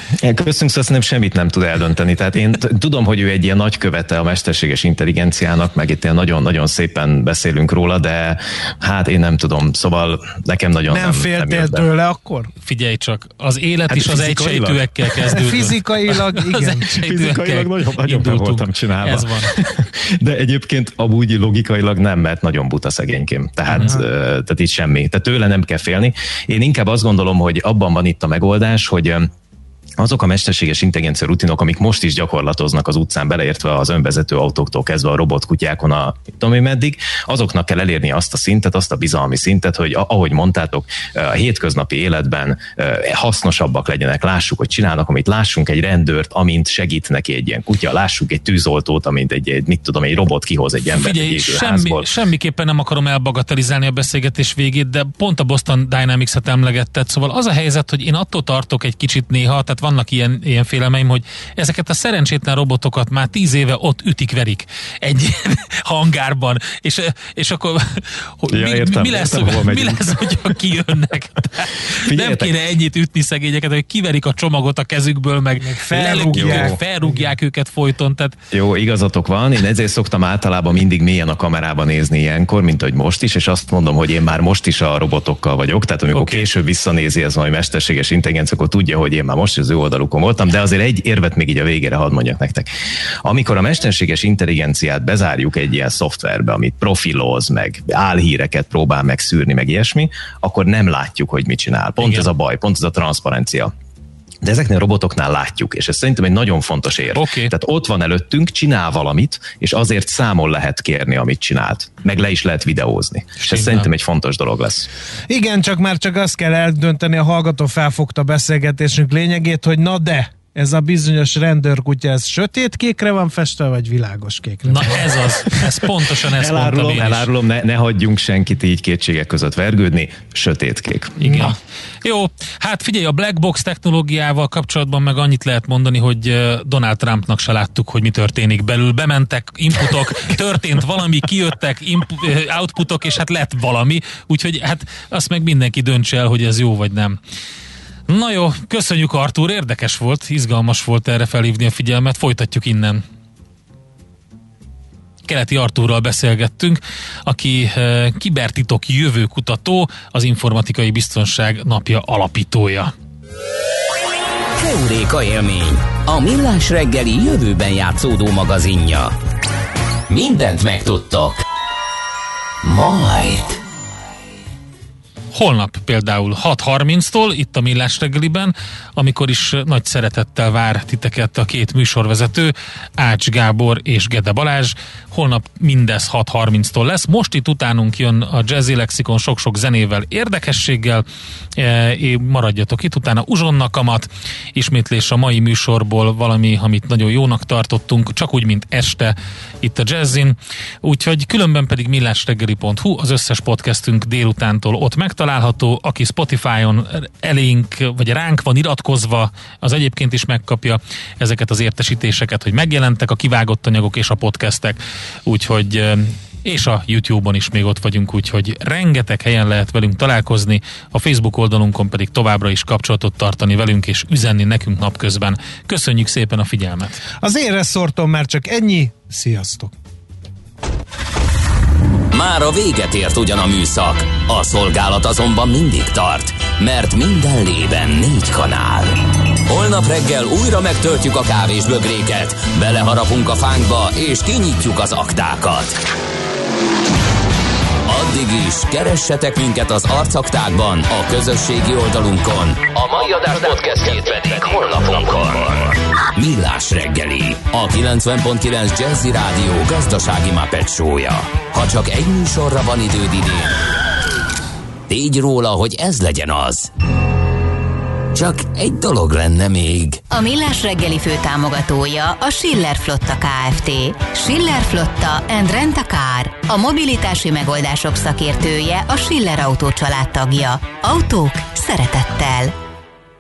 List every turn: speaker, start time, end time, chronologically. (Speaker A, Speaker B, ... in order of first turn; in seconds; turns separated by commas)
Speaker A: 0.2-11.8, Speaker B: 10.9-12.5, Speaker C: 12.7-19.5, Speaker A: 13.9-15.3, Speaker B: 15.3-16.9, Speaker A: 17.0-29.3, Speaker C: 23.7-24.0, Speaker B: 23.8-24.1, Speaker A: 30.0-52.0, Speaker C: 50.8-78.4, Speaker A: 68.5-70.2, Speaker A: 72.0-72.5, Speaker B: 75.6-77.3, Speaker A: 76.1-76.8, Speaker A: 78.5-92.7, Speaker C: 86.1-86.5, Speaker A: 93.2-103.7, Speaker C: 102.0-102.3, Speaker A: 104.4-114.9, Speaker C: 107.1-107.5, Speaker C: 113.4-113.9, Speaker B: 115.3-125.7, Speaker C: 124.7-127.3, Speaker A: 126.3-131.5, Speaker C: 131.2-147.2, Speaker C: 148.1-153.0, Speaker C: 155.3-162.9, Speaker D: 164.6-169.1, Speaker D: 170.1-171.4, Speaker D: 172.6-173.6, Speaker C: 175.3-191.1, Speaker C: 191.6-227.0, Speaker B: 227.2-229.7, Speaker D: 232.1-245.8, Speaker D: 247.9-263.6, Speaker D: 264.9-266.7, Speaker D: 268.1-270.0, Speaker E: 270.1-282.5